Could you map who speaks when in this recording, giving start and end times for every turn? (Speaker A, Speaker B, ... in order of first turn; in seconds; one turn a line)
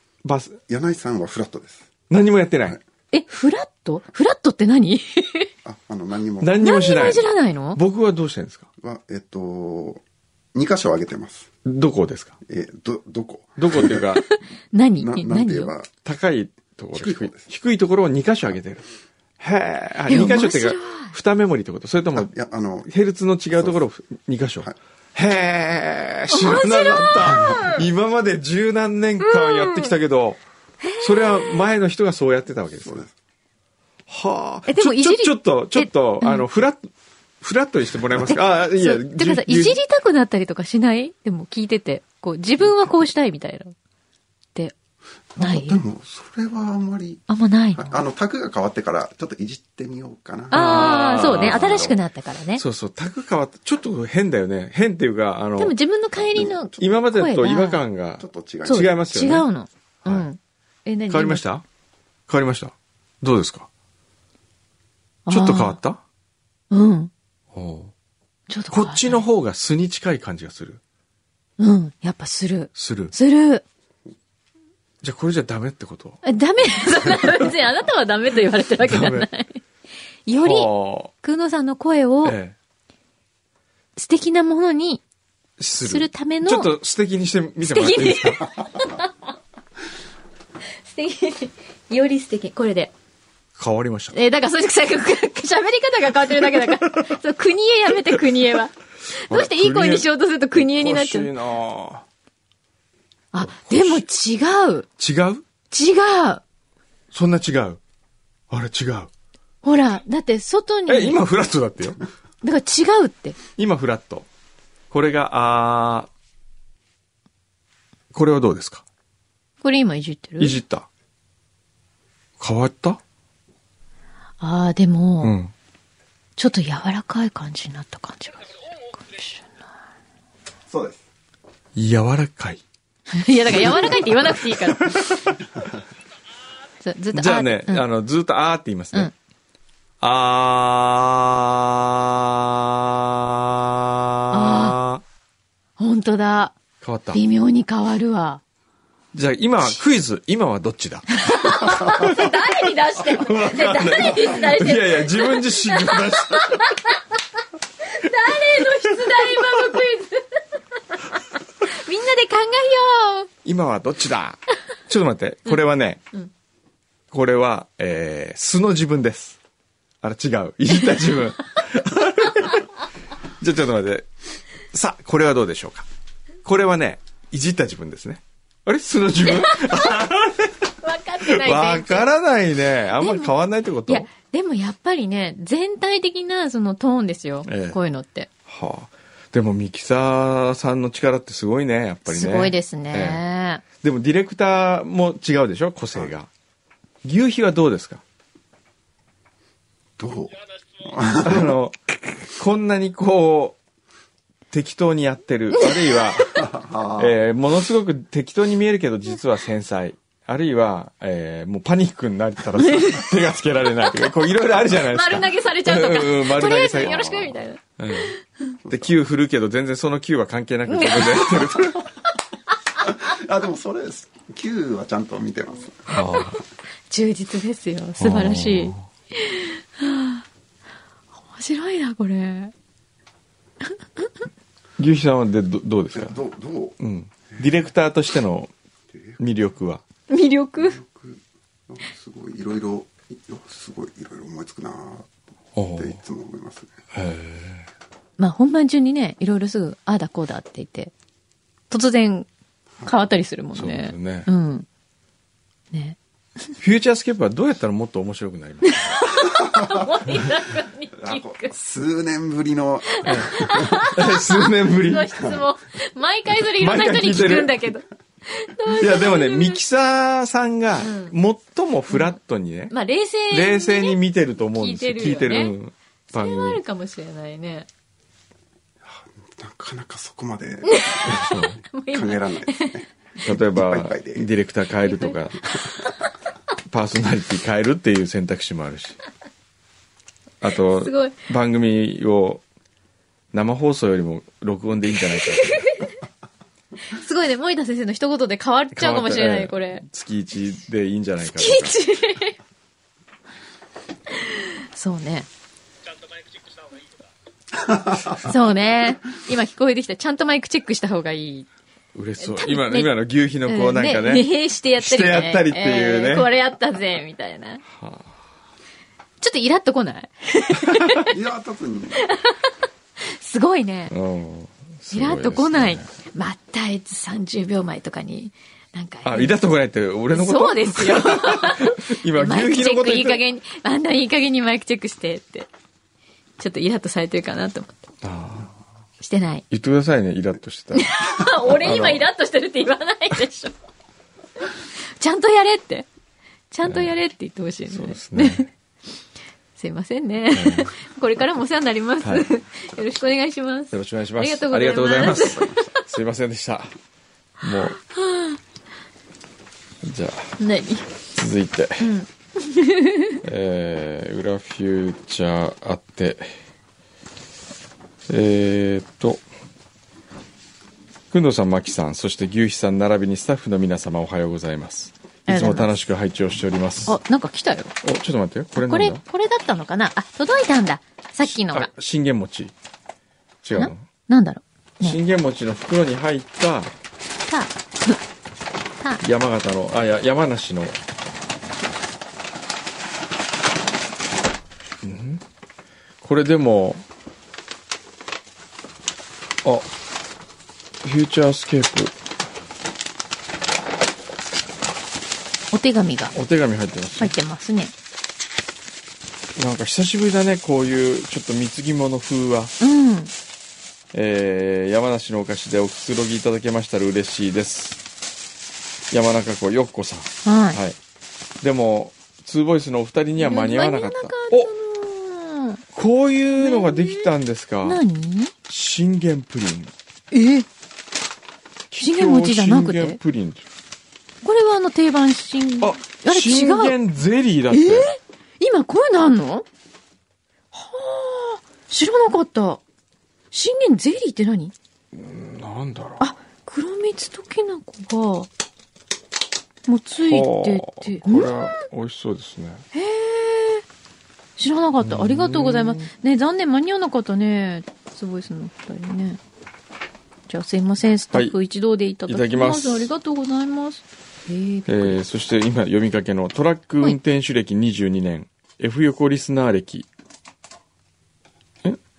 Speaker A: 0.2-0.6
Speaker B: 0.7-1.9
Speaker A: 2.1-2.8
Speaker C: 3.1-5.5
Speaker B: 5.6-6.6
Speaker A: 6.4-8.7
Speaker C: 6.6-7.8
Speaker B: 8.8-10.0
Speaker B: 10.5-11.5
Speaker A: 11.6-12.3
Speaker B: 12.4-14.1
Speaker A: 13.6-14.2
Speaker C: 14.2-15.7
Speaker B: 15.0-15.9
Speaker A: 16.0-18.8
Speaker B: 16.9-17.4
Speaker A: 19.4-22.3
Speaker C: 20.1-21.1
Speaker B: 22.1-22.9
Speaker A: 22.9-30.4
Speaker C: 26.3-27.8
Speaker B: 27.3-27.6
Speaker C: 29.2-29.9
Speaker C: 30.8-31.6
Speaker A: 31.0-33.0
Speaker B: 32.8-33.1
Speaker A: 34.1-36.9
Speaker C: 34.7-36.4
Speaker A: 37.4-39.8
Speaker C: 38.3-43.7
Speaker B: 45.4-47.2
Speaker C: 45.4-45.8
Speaker C: 47.3-48.0
Speaker B: 47.7-52.0
Speaker C: 50.5-52.6
Speaker A: 50.5-51.9
Speaker A: 52.5-55.7
Speaker C: 55.6-57.8
Speaker B: 56.3-57.0
Speaker A: 56.8-59.5
Speaker B: 58.2-58.9
Speaker C: 58.6-61.4
Speaker A: 61.1-61.6
Speaker A: 62.3-63.7
Speaker C: 65.3-65.8
Speaker A: 65.3-66.0
Speaker C: 66.7-67.1
Speaker A: 67.5-67.9
Speaker C: 68.5-69.2
Speaker A: 68.7-70.8
Speaker C: 71.6-73.6
Speaker A: 72.7-73.1
Speaker A: 75.0-76.2
Speaker C: 76.2-79.6
Speaker A: 78.8-79.3
Speaker C: 80.2-80.7
Speaker A: 80.3-81.1
Speaker C: 81.2-82.4
Speaker A: 82.2-82.5
Speaker C: 84.0-85.0
Speaker A: 85.6-88.4
Speaker C: 85.8-86.7
Speaker C: 87.6-89.1
Speaker C: 90.9-92.9
Speaker A: 93.6-94.2
Speaker C: 94.1-101.3
Speaker A: 99.3-102.0
Speaker C: 103.3-104.9
Speaker A: 103.4-104.0
Speaker A: 105.0-105.4
Speaker C: 105.7-106.4
Speaker A: 107.1-107.8
Speaker A: 108.5-109.1
Speaker C: 109.6-111.2
Speaker A: 110.9-112.0
Speaker C: 112.4-113.4
Speaker A: 113.6-114.3
Speaker A: 114.9-116.1
Speaker A: 118.1-118.8
Speaker C: 119.6-120.6
Speaker A: 120.4-120.9
Speaker A: 122.4-123.0
Speaker C: 124.4-125.3
Speaker A: 125.2-125.5
Speaker C: 126.4-129.5
Speaker B: 130.7-131.0
Speaker A: 131.7-132.6
Speaker C: 133.1-135.1
Speaker A: 133.5-135.3
Speaker C: 136.8-137.8
Speaker A: 137.1-139.1
Speaker A: 140.0-145.0
Speaker C: 144.3-144.8
Speaker C: 145.8-146.5
Speaker A: 146.8-147.2
Speaker C: 147.1-148.4
Speaker A: 149.1-152.5
Speaker C: 151.2-156.9
Speaker A: 153.0-156.7
Speaker C: 157.9-160.4
Speaker C: 161.7-163.3
Speaker A: 163.4-166.0
Speaker A: 167.1-169.4
Speaker A: 170.0-172.6
Speaker A: 173.4-174.1
Speaker A: 174.7-175.8
Speaker A: 176.4-180.7
Speaker C: 179.2-180.0
Speaker C: 180.8-182.1
Speaker A: 181.2-184.1
Speaker C: 183.0-183.3
Speaker C: 183.9-188.3
Speaker A: 187.4-187.8
Speaker A: 188.5-193.2
Speaker C: 192.1-193.6
Speaker A: 193.8-196.3
Speaker A: 197.0-198.0
Speaker B: 200.0-201.5
Speaker A: 201.2-203.6
Speaker A: 204.5-218.1
Speaker C: 205.5-206.2
Speaker B: 206.4-207.1
Speaker C: 212.6-213.1
Speaker C: 214.7-218.1
Speaker B: 218.7-218.9
Speaker A: 218.7-221.8
Speaker C: 220.7-221.6
Speaker B: 222.8-225.9
Speaker A: 225.9-226.4
Speaker C: 225.9-226.3
Speaker C: 226.9-230.2
Speaker A: 228.0-228.8
Speaker C: 231.3-232.5
Speaker A: 234.8-236.2
Speaker B: 235.9-236.8
Speaker A: 236.8-238.5
Speaker A: 239.2-239.8
Speaker C: 240.1-240.8
Speaker B: 240.6-245.1
Speaker A: 245.6-246.0
Speaker B: 245.7-246.7
Speaker A: 246.9-247.7
Speaker C: 248.2-250.9
Speaker C: 251.7-252.3
Speaker C: 252.8-254.7
Speaker A: 253.5-254.3
Speaker C: 255.7-256.0
Speaker A: 256.6-259.0
Speaker C: 258.6-261.5
Speaker B: 260.9-263.9
Speaker C: 263.0-269.6
Speaker A: 263.1-265.1
Speaker A: 266.6-267.6
Speaker A: 268.7-272.7
Speaker C: 270.8-271.1
Speaker C: 272.7-274.0
Speaker A: 273.3-276.6
Speaker C: 274.5-275.5
Speaker C: 276.1-277.7
Speaker B: 278.8-281.3
Speaker C: 280.6-282.8
Speaker A: 281.1-281.6
Speaker B: 281.9-284.3
Speaker A: 283.2-285.6
Speaker C: 284.8-285.7
Speaker A: 286.7-289.0
Speaker A: 290.4-292.4
Speaker C: 290.7-291.2
Speaker A: 293.3-295.8
Speaker C: 295.2-295.9
Speaker C: 296.9-299.8
Speaker A: 298.7-301.8
Speaker C: 301.3-302.4
Speaker C: 304.2-305.3
Speaker C: 308.1-311.5
Speaker A: 311.9-316.3
Speaker C: 312.2-312.9
Speaker C: 313.5-317.6
Speaker A: 317.7-318.1
Speaker C: 319.2-321.1
Speaker B: 321.1-322.0
Speaker C: 322.1-322.4
Speaker C: 323.0-323.9
Speaker A: 323.9-325.9
Speaker C: 324.9-329.4
Speaker A: 329.0-333.2
Speaker C: 330.1-335.5
Speaker C: 336.4-337.8
Speaker A: 338.0-338.5
Speaker C: 339.0-339.4
Speaker A: 339.5-342.1
Speaker C: 340.7-343.5
Speaker C: 345.0-345.9
Speaker C: 346.5-348.5
Speaker A: 346.6-346.9
Speaker A: 347.7-348.5
Speaker C: 349.6-355.8
Speaker A: 350.3-350.7
Speaker A: 353.7-356.7
Speaker A: 357.4-357.8
Speaker C: 357.9-358.4
Speaker A: 359.8-360.4
Speaker C: 360.4-360.9
Speaker A: 361.1-361.9
Speaker C: 361.8-363.2
Speaker A: 363.2-366.3
Speaker A: 368.1-369.2
Speaker A: 371.1-377.0
Speaker C: 375.3-375.7
Speaker C: 376.9-377.7
Speaker A: 377.8-379.0
Speaker C: 378.5-381.7
Speaker A: 381.2-382.5
Speaker A: 383.4-383.8
Speaker C: 383.5-385.0
Speaker A: 384.8-386.7
Speaker C: 387.3-388.0
Speaker A: 389.0-390.8
Speaker A: 394.8-395.2
Speaker A: 396.0-396.8
Speaker A: 400.8-401.9
Speaker C: 405.5-406.1
Speaker A: 406.1-407.1
Speaker C: 407.0-407.7
Speaker A: 409.4-412.5
Speaker C: 412.6-413.1
Speaker A: 413.9-417.8
Speaker A: 418.9-420.8
Speaker C: 420.2-420.6
Speaker A: 421.4-424.5
Speaker C: 423.2-425.6
Speaker A: 425.7-427.8
Speaker C: 426.4-427.1
Speaker C: 427.6-428.3
Speaker A: 428.5-429.7
Speaker C: 430.1-430.5
Speaker A: 431.7-433.4
Speaker C: 431.8-433.0
Speaker C: 434.2-436.7
Speaker A: 435.6-437.9
Speaker C: 437.5-439.4
Speaker C: 440.5-442.6
Speaker C: 443.3-444.5
Speaker A: 444.9-446.0
Speaker C: 446.0-448.3
Speaker C: 449.6-451.6
Speaker A: 450.0-452.6
Speaker C: 452.7-453.6
Speaker C: 454.4-459.2
Speaker A: 454.8-455.9
Speaker C: 460.3-465.0
Speaker A: 462.1-462.9
Speaker A: 464.7-469.9